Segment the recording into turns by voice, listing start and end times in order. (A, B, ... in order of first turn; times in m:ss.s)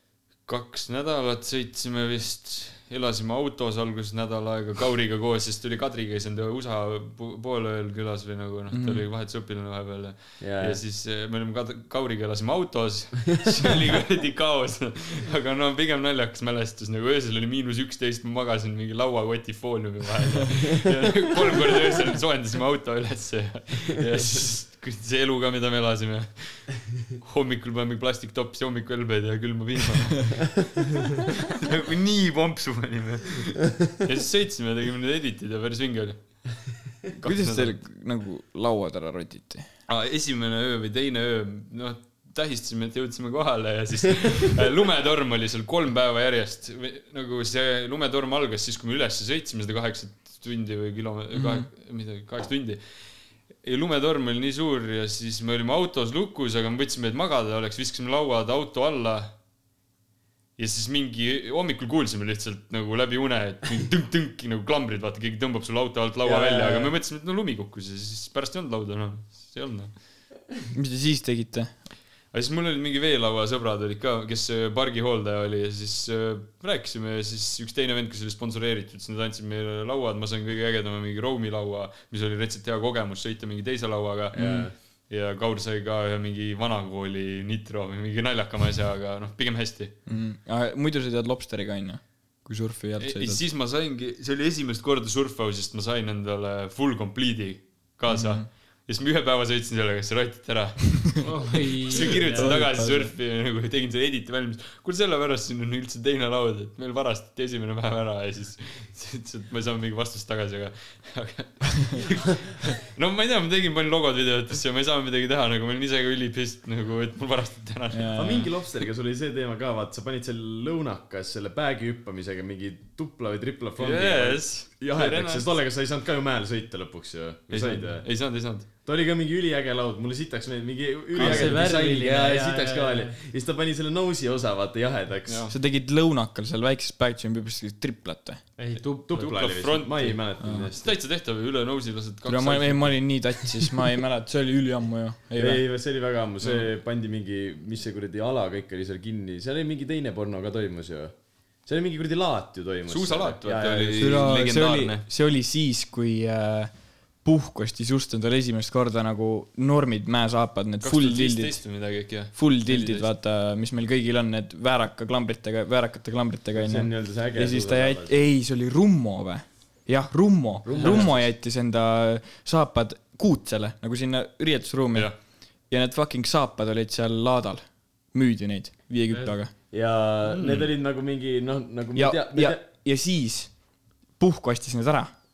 0:00.4-0:30.7 A
0:08.7-0:09.0 B
0:10.4-0:10.8 C
0:31.4-0:37.8 A
0:37.2-0:39.7 B
0:39.9-0:59.3 A
0:51.3-0:51.7 B
1:00.6-1:10.3 A
1:06.3-1:06.7 C
1:06.3-1:06.9 B
1:10.7-1:11.8 B
1:12.3-1:30.0 A
1:24.3-1:24.7 C
1:24.4-1:24.7 B
1:30.1-1:33.4 B
1:33.0-1:58.5 A
1:38.1-1:38.5 B
1:41.2-1:42.5 D
1:41.9-1:43.1 B
1:57.9-1:58.5 B
1:58.1-2:08.0 C
2:03.8-2:05.5 A
2:07.5-2:08.7 A
2:08.8-2:15.5 C
2:11.2-2:11.8 B
2:11.2-2:13.1 D
2:15.3-2:15.5 A
2:15.5-2:18.4 B
2:18.6-2:19.3 D
2:19.0-2:20.9 C
2:19.1-2:20.2 A
2:20.4-2:20.7 B
2:20.8-2:23.1 A
2:22.3-2:25.6 B
2:25.4-2:34.3 C
2:32.9-2:35.0 A
2:34.0-2:41.8 B
2:40.8-2:43.1 A
2:42.3-2:59.5 B
2:46.5-2:48.2 C
2:50.6-2:51.3 C
2:50.8-2:51.2 A
2:59.7-3:02.6 C
3:00.3-3:00.7 A
3:02.0-3:05.1 B